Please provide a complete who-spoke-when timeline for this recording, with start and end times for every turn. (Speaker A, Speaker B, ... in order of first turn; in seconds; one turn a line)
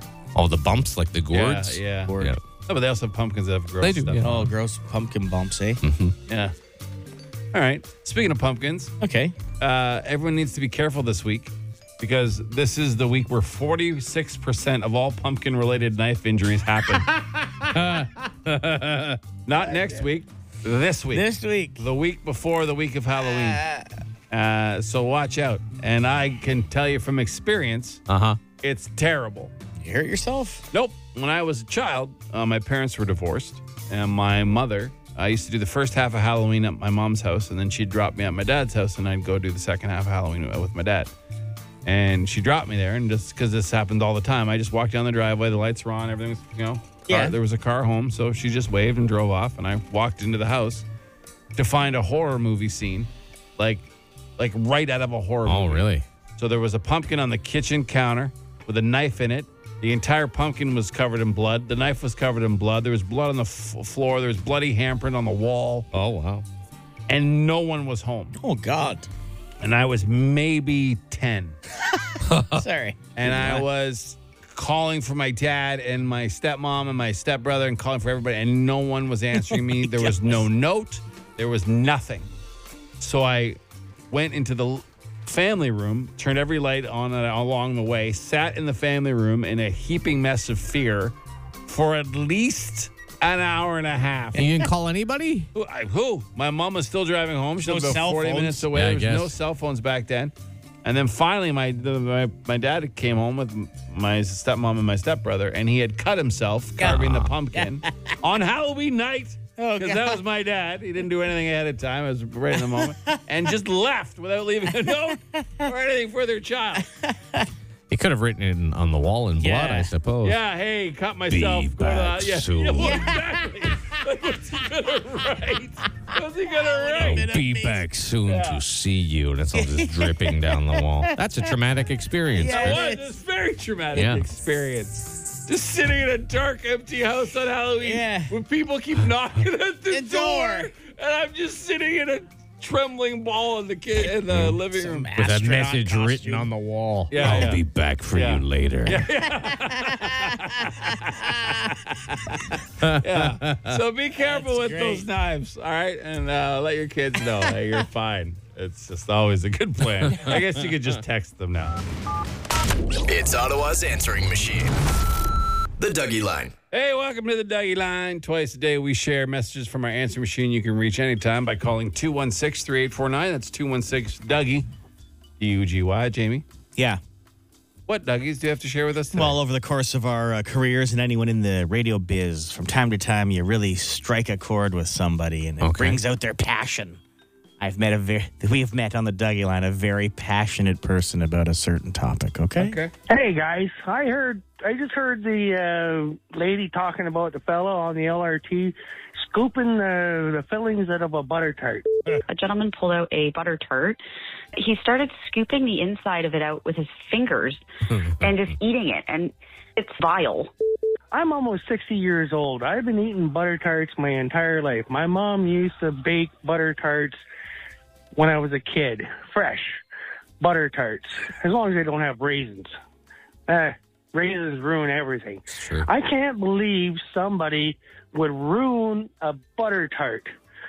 Speaker A: 0.3-2.4
Speaker B: 1.3-2.1
Speaker C: 2.0-2.4
Speaker B: 2.7-4.3
Speaker A: 3.8-4.5
Speaker C: 4.2-5.8
Speaker A: 5.8-6.1
Speaker B: 6.3-6.5
Speaker B: 7.5-8.9
Speaker C: 9.0-9.4
Speaker B: 9.6-17.1
Speaker A: 17.7-19.2
Speaker B: 19.4-21.3
Speaker C: 19.6-20.0
Speaker C: 21.1-21.9
Speaker B: 21.8-23.6
Speaker C: 23.2-23.9
Speaker B: 24.3-28.0
Speaker A: 28.1-28.4
Speaker B: 28.6-29.5
Speaker C: 29.8-30.6
Speaker B: 30.7-41.1
Speaker B: 41.9-50.8
Speaker C: 47.1-47.4
Speaker B: 51.5-65.9
Speaker A: 55.5-56.0
Speaker A: 65.9-66.4
Speaker B: 67.1-68.3
Speaker C: 68.3-69.1
Speaker B: 69.6-71.6
Speaker C: 71.8-73.7
Speaker A: 72.3-72.6
Speaker B: 73.2-82.3
Speaker C: 79.8-80.4
Speaker B: 83.0-83.6
Speaker B: 84.1-91.1
Speaker B: 91.7-94.5
Speaker A: 94.3-95.5
Speaker B: 95.5-116.8
Speaker C: 97.6-98.7
Speaker A: 98.7-99.3
Speaker C: 106.8-108.1
Speaker A: 106.8-107.3
Speaker C: 109.6-110.2
Speaker C: 112.5-113.1
Speaker C: 114.8-115.7
Speaker C: 116.8-117.5
Speaker A: 117.9-120.4
Speaker C: 119.4-119.9
Speaker B: 120.2-127.3
Speaker A: 121.3-123.2
Speaker C: 122.7-123.8
Speaker C: 126.1-127.9
Speaker A: 127.0-132.9
Speaker B: 128.3-128.6
Speaker C: 129.5-131.5
Speaker C: 132.3-133.1
Speaker B: 132.4-145.1
Speaker A: 133.9-134.2
Speaker C: 137.8-138.4
Speaker C: 139.9-140.7
Speaker A: 144.3-144.5
Speaker C: 144.4-146.6
Speaker A: 145.1-149.1
Speaker B: 147.1-147.6
Speaker C: 147.1-147.5
Speaker B: 148.1-161.8
Speaker C: 149.7-151.7
Speaker A: 152.8-153.7
Speaker C: 154.1-155.1
Speaker D: 163.1-164.7
Speaker D: 165.8-166.5
Speaker B: 166.7-174.7
Speaker B: 175.4-176.4
Speaker C: 176.8-177.0
Speaker B: 177.9-179.4
Speaker C: 179.1-187.0
Speaker A: 185.6-186.0
Speaker C: 187.6-192.8
Speaker B: 192.5-192.9
Speaker E: 193.1-201.9
Speaker F: 202.2-204.0
Speaker F: 204.6-207.6
Speaker A: 207.9-208.3
Speaker F: 208.2-210.5
Speaker E: 211.1-217.2
Speaker E: 218.2-219.8
Speaker E: 220.4-222.7
Speaker E: 223.5-230.3
Speaker A: 225.5-225.9